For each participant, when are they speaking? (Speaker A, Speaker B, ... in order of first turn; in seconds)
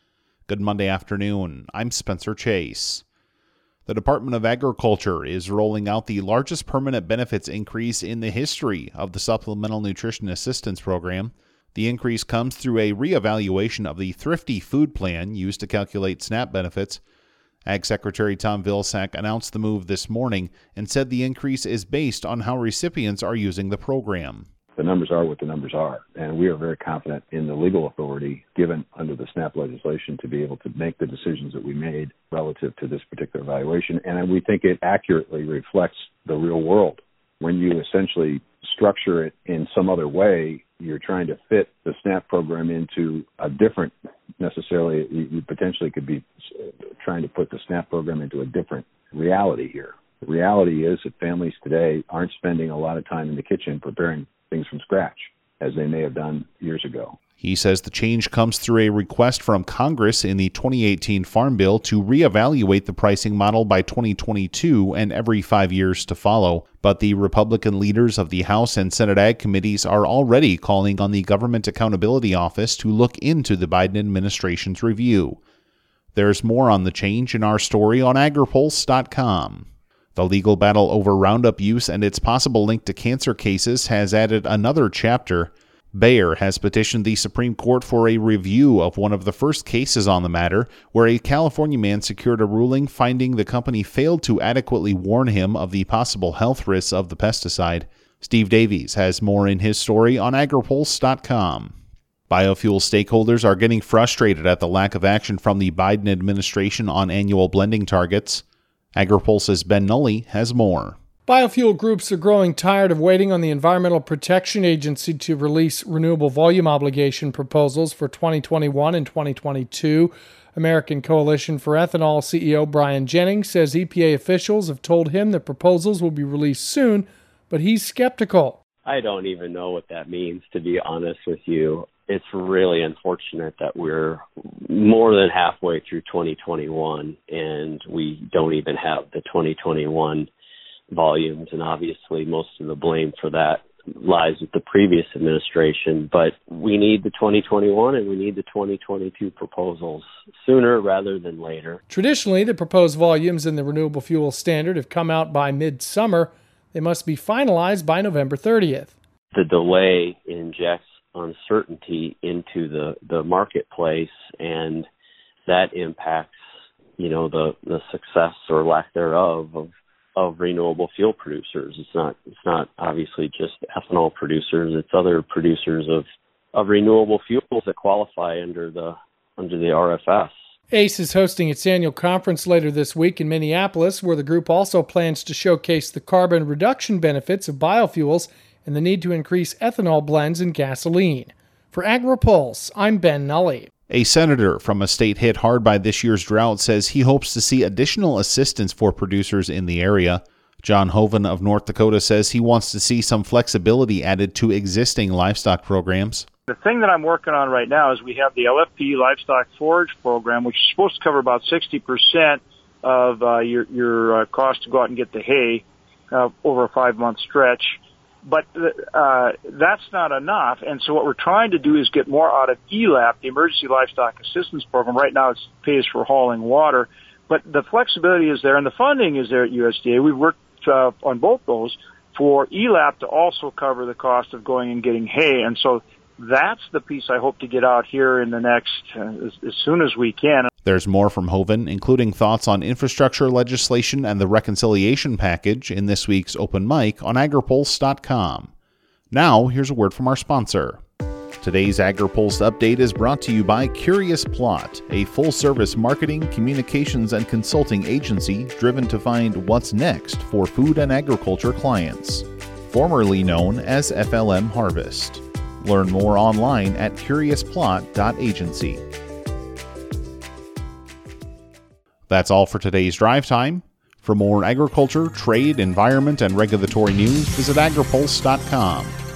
Speaker A: 0.5-3.0, 3.9-17.0, 17.7-24.5, 57.4-75.4, 76.2-101.7, 102.3-108.4, 109.0-111.0, 193.9-206.3, 240.7-248.5, 249.1-250.8, 251.4-268.8, 272.1-279.0
Speaker B: 24.8-57.2
Speaker C: 111.3-128.6, 151.9-158.9, 180.7-193.7
Speaker D: 128.8-140.3, 140.9-151.8, 159.3-164.9, 165.5-166.3, 167.0-180.3
Speaker E: 206.5-240.5